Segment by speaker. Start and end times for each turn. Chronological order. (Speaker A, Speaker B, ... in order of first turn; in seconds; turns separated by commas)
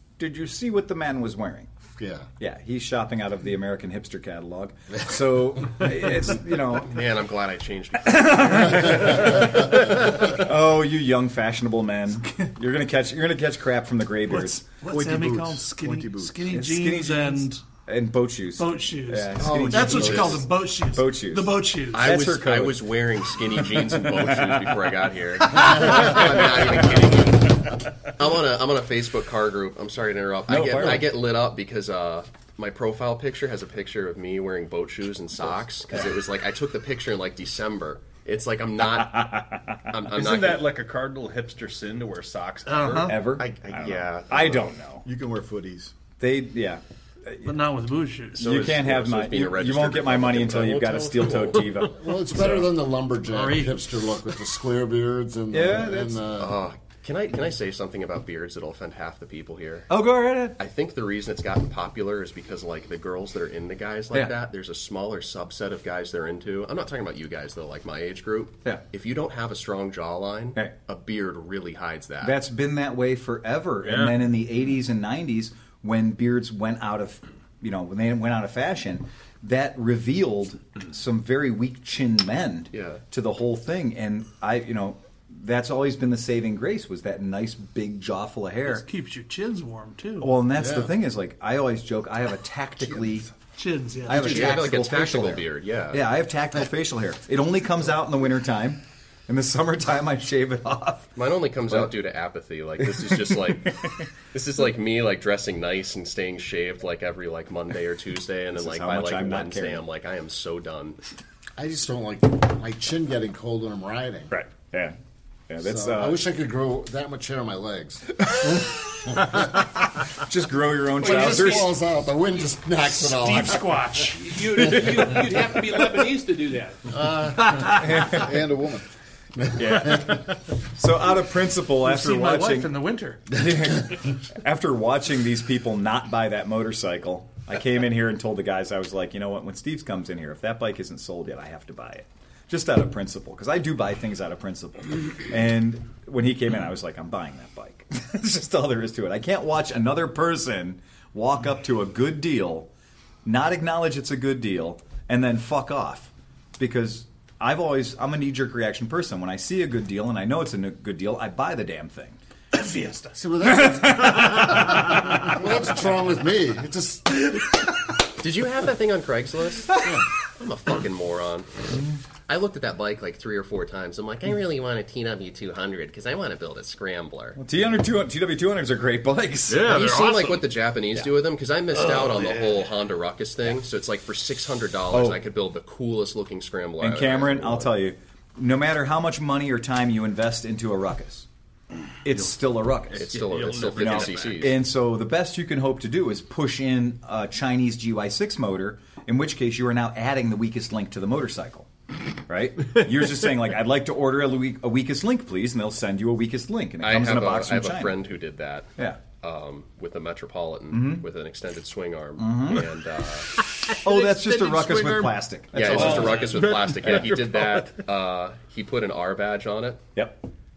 Speaker A: 0.2-1.7, Speaker B: 1.9-2.3, Speaker A: 2.4-6.9, Speaker C: 6.8-10.0, Speaker A: 8.1-14.6, Speaker D: 14.3-17.6, Speaker E: 14.8-16.5, Speaker A: 16.5-22.9, Speaker D: 18.6-22.3, Speaker E: 19.3-20.3, Speaker C: 19.7-20.4, Speaker C: 21.9-40.7, Speaker A: 24.1-24.7, Speaker D: 25.6-25.9, Speaker A: 30.5-31.1, Speaker F: 40.1-43.2, Speaker D: 42.8-43.1, Speaker A: 42.8-45.0, Speaker C: 43.4-44.7, Speaker E: 45.0-45.9, Speaker A: 46.2-47.6, Speaker D: 47.4-48.7, Speaker A: 48.3-52.0, Speaker C: 48.6-51.6, Speaker B: 51.8-56.6, Speaker D: 53.3-53.8, Speaker A: 55.5-56.2, Speaker C: 56.4-59.9, Speaker A: 59.9-60.6, Speaker C: 60.6-72.4, Speaker A: 72.2-88.8, Speaker F: 73.8-74.2, Speaker C: 82.7-83.0, Speaker D: 88.6-90.4, Speaker A: 90.2-93.3, Speaker B: 90.5-90.9, Speaker D: 93.5-94.7, Speaker A: 94.0-101.1, Speaker C: 94.1-96.0, Speaker C: 101.2-111.0, Speaker A: 108.5-109.8, Speaker B: 111.6-114.3, Speaker A: 114.3-115.0, Speaker A: 115.5-116.2, Speaker B: 115.6-119.7, Speaker A: 120.2-121.7, Speaker B: 121.0-123.9, Speaker D: 122.8-125.2, Speaker G: 124.1-127.0, Speaker B: 126.9-128.0, Speaker A: 127.7-128.3, Speaker E: 127.8-128.8, Speaker B: 129.4-130.3, Speaker A: 129.6-132.7, Speaker D: 131.8-133.2, Speaker A: 133.3-152.7, Speaker A: 153.2-162.2, Speaker D: 162.5-163.2, Speaker B: 163.1-167.3, Speaker A: 163.7-164.8, Speaker C: 168.2-171.7, Speaker C: 172.3-177.4, Speaker A: 177.3-179.8, Speaker F: 179.5-180.5, Speaker C: 179.6-187.7, Speaker F: 181.8-182.5, Speaker A: 184.9-185.2, Speaker A: 186.8-191.2, Speaker A: 192.0-193.1, Speaker F: 192.8-194.5, Speaker C: 192.9-194.6, Speaker A: 193.8-201.7, Speaker A: 202.2-208.0, Speaker C: 206.8-213.3, Speaker A: 210.7-211.0, Speaker A: 212.2-212.7, Speaker F: 213.4-217.8, Speaker A: 213.7-216.3, Speaker C: 215.5-219.8, Speaker A: 219.9-220.2